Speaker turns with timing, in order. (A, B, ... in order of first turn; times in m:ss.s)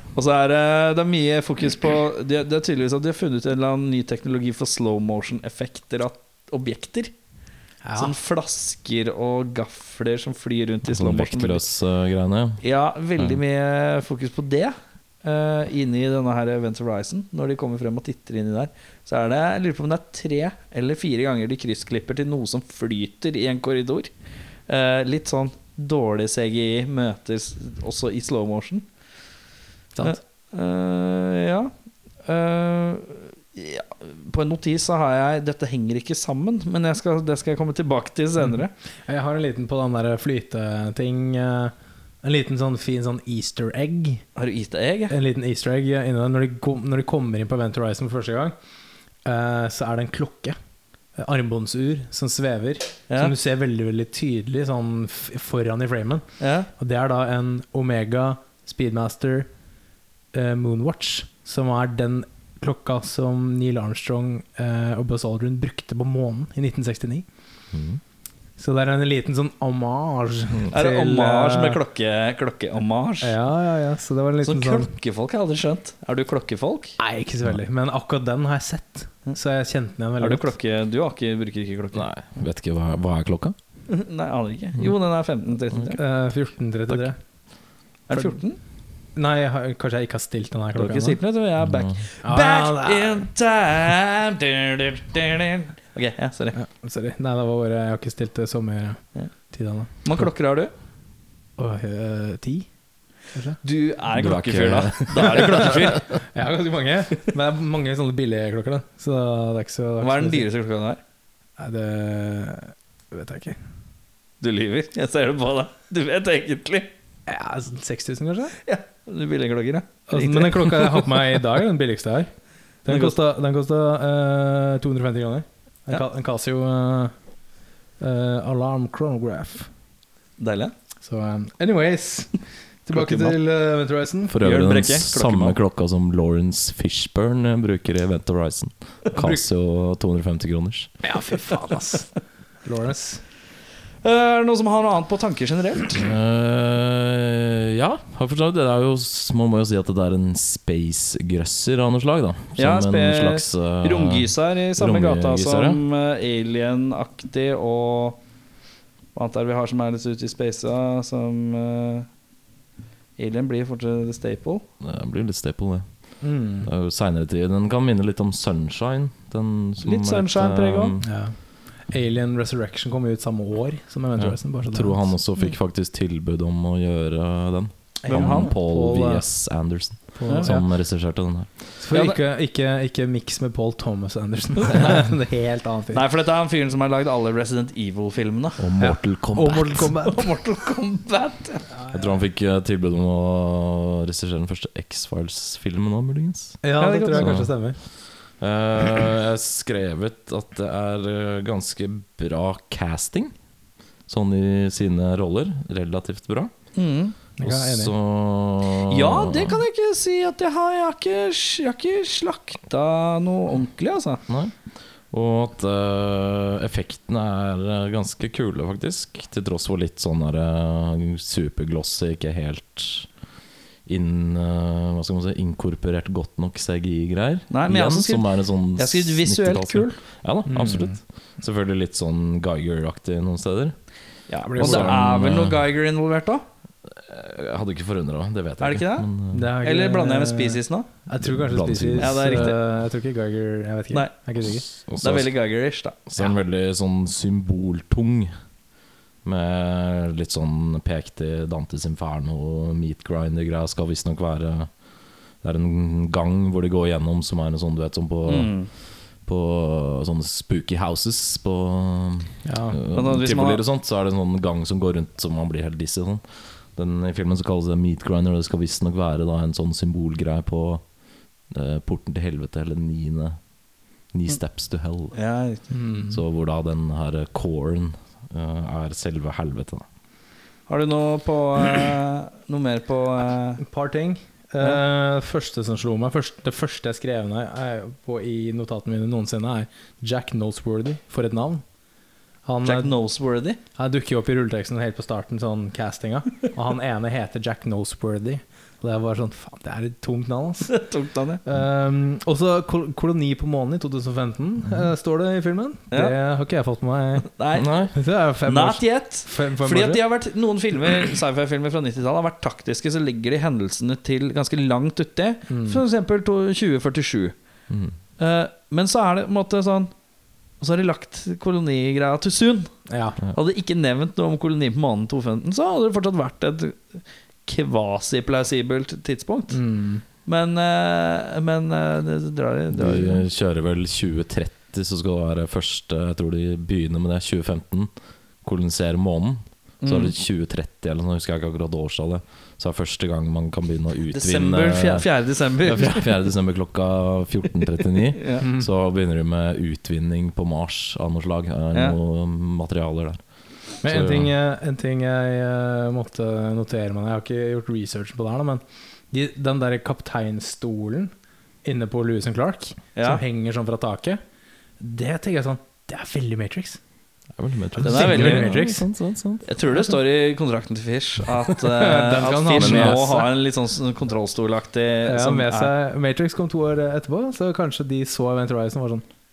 0:00.2-0:07.1 A
0:07.8-0:08.1 B
0:08.0-0:11.7 A
0:10.9-0:12.6 C
0:12.6-0:24.1 A
0:24.7-0:28.9 A
0:30.0-0:31.7 A
0:32.2-0:38.7 A
0:39.1-0:44.2 B
0:44.4-0:45.2 A
0:45.1-0:48.5 B
0:49.2-0:50.6 B
0:51.2-0:56.2 B
0:56.4-0:56.7 A
0:56.8-0:59.5 B
1:00.3-1:07.3 B
1:07.7-1:08.0 C
1:08.6-1:11.8 B
1:10.7-1:13.4 A
1:13.2-1:14.9 B
1:14.4-1:17.0 A
1:17.0-1:20.5 B
1:20.2-1:22.1 A
1:21.9-1:23.6 C
1:23.9-1:26.0 A
1:26.0-1:27.2 B
1:28.1-1:28.6 A
1:29.2-1:31.2 B
1:30.8-1:36.6 A
1:31.6-1:32.0 C
1:32.2-1:33.3 B
1:36.6-1:40.3 B
1:40.0-1:40.7 A
1:41.6-1:42.7 B
1:43.3-1:43.6 B
1:43.6-1:46.1 A
1:44.2-1:46.1 C
1:45.3-1:50.5 B
1:50.0-1:51.0 A
1:51.6-1:53.6 B
1:54.4-1:56.9 A
1:57.3-1:58.6 B
1:58.6-2:01.3 A
2:00.1-2:02.3 B
2:02.8-2:07.1 B
2:02.9-2:03.1 A
2:08.0-2:09.7 B
2:10.4-2:10.7 A
2:11.0-2:14.4 B
2:12.9-2:13.4 A
2:14.3-2:21.0 C
2:14.4-2:15.6 A
2:19.2-2:19.4 B
2:21.0-2:22.1 B
2:22.6-2:23.2 B
2:24.0-2:26.0 A
2:26.0-2:35.8 C
2:32.6-2:38.2 A
2:39.2-2:42.1 A
2:43.2-2:44.6 A
2:44.8-2:45.9 C
2:46.2-2:46.7 B
2:46.6-2:51.1 C
2:49.8-2:51.0 A
2:51.0-2:51.4 B
2:51.9-2:55.0 B
2:54.2-3:01.5 C
2:58.0-2:59.3 B
2:58.1-2:58.5 A
3:00.2-3:00.7 B
3:00.3-3:00.5 A
3:01.8-3:06.0 B
3:01.9-3:02.2 A
3:05.9-3:08.6 A
3:08.6-3:10.0 C
3:08.8-3:10.3 B
3:10.0-3:11.7 A
3:11.8-3:12.2 B
3:11.9-3:16.6 C
3:16.6-3:17.8 B
3:16.8-3:17.3 A
3:17.2-3:17.5 C
3:18.4-3:23.3 C
3:24.1-3:26.5 C
3:26.8-3:27.2 A
3:27.4-3:27.9 B
3:27.4-3:29.6 C
3:28.9-3:34.2 A
3:34.3-3:34.5 C
3:35.1-3:43.1 C
3:43.9-3:53.8 C
3:47.5-3:50.0 A
3:50.5-3:51.0 B
3:54.3-3:56.5 A
3:54.5-3:55.0 B
3:54.6-3:55.6 C
3:56.9-3:59.5 C
3:58.6-3:59.1 A
3:59.3-4:04.7 B
3:59.6-4:00.9 A
4:01.2-4:02.5 C
4:02.0-4:02.6 A
4:04.8-4:05.3 C
4:05.0-4:06.0 A
4:06.1-4:08.3 C
4:09.2-4:14.7 C
4:15.4-4:18.5 C
4:18.3-4:18.7 A
4:19.2-4:26.2 C
4:22.4-4:22.8 B
4:22.9-4:23.6 A
4:26.8-4:30.8 C
4:31.5-4:33.4 C
4:34.1-4:35.2 C
4:35.1-4:35.7 A
4:35.7-4:36.2 B
4:36.1-4:39.8 C
4:40.7-4:43.6 A
4:43.6-4:51.6 B
4:52.5-4:52.9 B
4:52.6-4:53.6 A
4:53.8-5:00.7 B
5:00.7-5:01.4 A
5:01.4-5:07.3 B
5:07.3-5:07.8 A
5:07.5-5:08.0 C
5:07.9-5:10.0 B
5:08.4-5:17.4 A
5:15.5-5:15.8 B
5:17.7-5:18.0 C
5:18.2-5:19.9 A
5:20.6-5:22.7 A
5:22.9-5:23.2 B
5:23.3-5:29.6 A
5:29.5-5:30.0 B
5:30.2-5:33.2 A
5:32.7-5:37.9 C
5:38.4-5:45.1 C
5:39.8-5:40.1 A
5:44.1-5:46.1 A
5:45.6-5:53.2 C
5:48.1-5:48.4 A
5:48.4-5:48.7 B
5:53.8-6:01.1 B
5:53.8-5:54.3 C
6:01.6-6:04.2 B
6:03.0-6:03.2 A
6:04.8-6:06.8 B
6:07.4-6:09.5 C
6:07.8-6:08.9 B
6:07.8-6:08.6 A
6:09.4-6:15.7 A
6:11.6-6:13.3 B
6:12.6-6:13.1 C
6:15.0-6:19.0 B